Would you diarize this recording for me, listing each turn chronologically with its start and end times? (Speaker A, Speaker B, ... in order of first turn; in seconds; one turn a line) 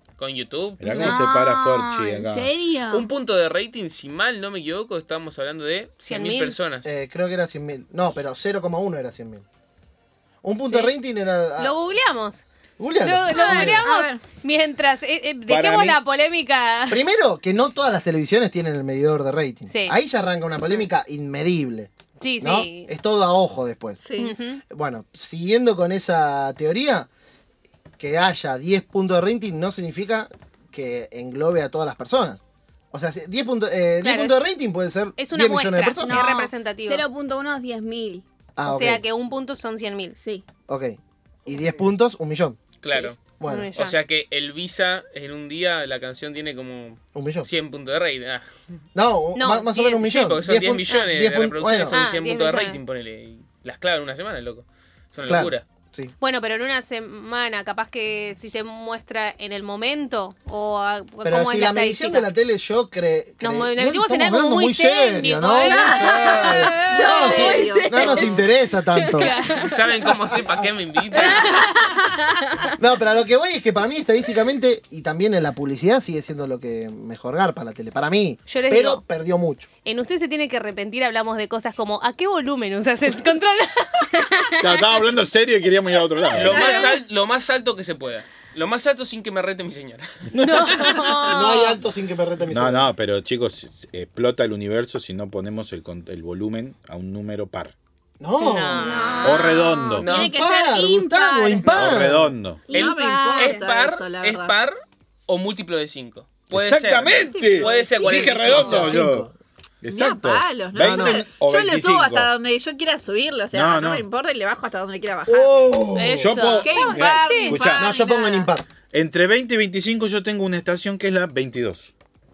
Speaker A: 0.2-1.2
Speaker B: 0.8-2.5
Speaker C: 0.9-3.1
Speaker A: 2.9-6.9
Speaker D: 6.1-6.6
Speaker E: 6.8-9.4
Speaker E: 10.4-11.7
Speaker D: 10.7-10.9
Speaker D: 11.6-12.4
Speaker E: 12.8-13.9
Speaker D: 13.0-17.0
Speaker C: 13.3-14.1
Speaker F: 13.4-14.2
Speaker B: 15.5-16.0
Speaker E: 16.9-24.0
Speaker D: 19.7-20.0
Speaker D: 22.2-22.9
Speaker F: 24.0-24.4
Speaker D: 24.2-24.6
Speaker E: 24.7-27.1
Speaker E: 28.0-32.4
Speaker E: 32.9-36.3
Speaker D: 34.0-34.4
Speaker D: 35.2-37.0
Speaker C: 36.0-38.2
Speaker E: 38.6-39.0
Speaker D: 38.7-40.2
Speaker C: 40.2-40.5
Speaker E: 40.7-42.6
Speaker A: 42.8-43.2
Speaker D: 42.9-44.0
Speaker E: 43.4-43.7
Speaker A: 43.8-48.5
Speaker E: 47.1-47.5
Speaker E: 49.0-52.0
Speaker D: 49.4-50.2
Speaker A: 50.0-55.6
Speaker D: 51.9-52.8
Speaker E: 55.3-56.1
Speaker D: 56.2-62.3
Speaker E: 61.2-69.3
Speaker D: 63.4-67.4
Speaker C: 65.7-68.3
Speaker F: 66.5-68.5
Speaker D: 68.0-68.3
Speaker D: 69.1-69.8
Speaker A: 69.6-71.6
Speaker E: 70.1-70.7
Speaker D: 71.1-72.0
Speaker C: 71.1-72.7
Speaker E: 72.8-79.7
Speaker D: 78.5-79.0
Speaker D: 79.8-84.8
Speaker B: 84.6-86.8
Speaker A: 86.3-90.1
Speaker F: 86.4-87.0
Speaker D: 86.4-87.0
Speaker B: 90.3-90.7
Speaker D: 90.4-91.8
Speaker E: 91.2-92.9
Speaker B: 92.5-97.7
Speaker E: 98.2-99.0
Speaker D: 98.4-99.7
Speaker C: 98.8-102.2
Speaker B: 99.2-100.1
Speaker A: 100.0-100.3
Speaker E: 100.1-102.3
Speaker B: 101.7-102.7
Speaker C: 102.7-103.7
Speaker F: 102.7-104.6
Speaker A: 102.7-104.8
Speaker A: 105.3-109.0
Speaker B: 106.5-109.3
Speaker F: 107.1-108.9
Speaker E: 108.3-109.3
Speaker B: 109.8-112.3
Speaker F: 109.9-115.9
Speaker E: 110.8-111.3
Speaker B: 113.5-114.1
Speaker E: 115.3-116.3
Speaker D: 116.0-117.6
Speaker B: 116.1-117.9
Speaker F: 116.6-118.5
Speaker E: 117.7-118.7
Speaker B: 118.9-121.9